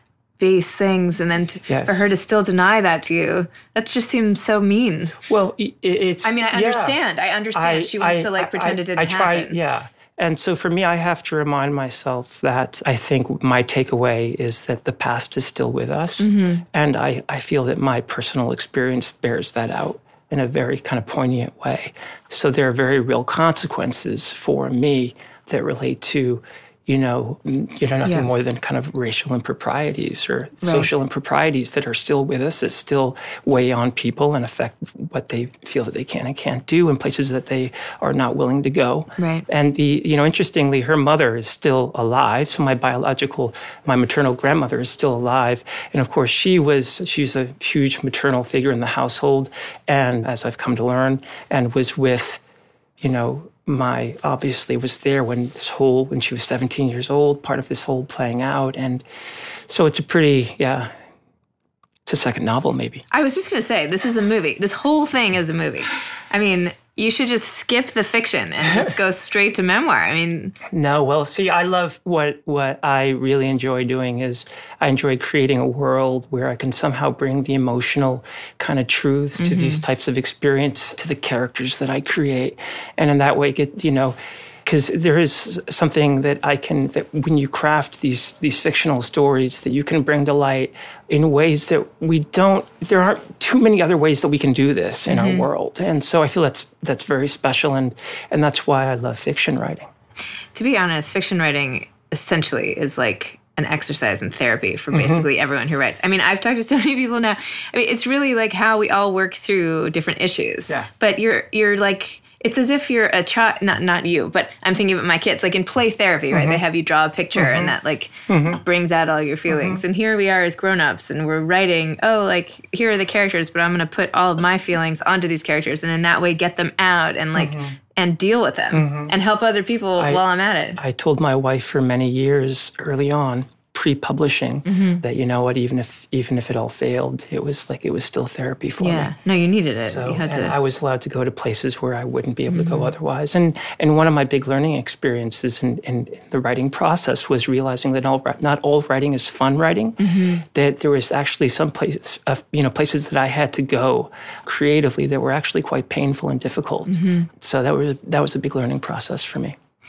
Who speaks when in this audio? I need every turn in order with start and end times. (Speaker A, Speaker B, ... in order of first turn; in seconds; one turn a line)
Speaker A: 0.4-5.2
Speaker B: 1.7-2.1
Speaker B: 5.3-7.0
Speaker A: 6.2-9.6
Speaker B: 7.5-52.4
Speaker A: 16.2-16.6
Speaker A: 30.6-30.9
Speaker A: 39.2-39.4
Speaker B: 53.0-59.0
Speaker B: 59.7-60.9
Speaker B: 62.0-63.0
Speaker A: 63.1-70.5
Speaker B: 70.7-99.9
Speaker A: 79.4-79.8
Speaker A: 95.1-95.5
Speaker A: 100.5-130.8
Speaker B: 104.9-105.2
Speaker B: 116.3-116.6
Speaker B: 117.3-117.7
Speaker B: 118.3-118.6
Speaker B: 119.5-119.8
Speaker B: 127.3-127.8
Speaker B: 128.7-129.1
Speaker B: 130.8-139.1
Speaker A: 134.7-135.0
Speaker A: 138.8-140.6
Speaker B: 139.8-159.6
Speaker A: 142.5-142.9
Speaker A: 150.0-150.4
Speaker A: 156.8-157.3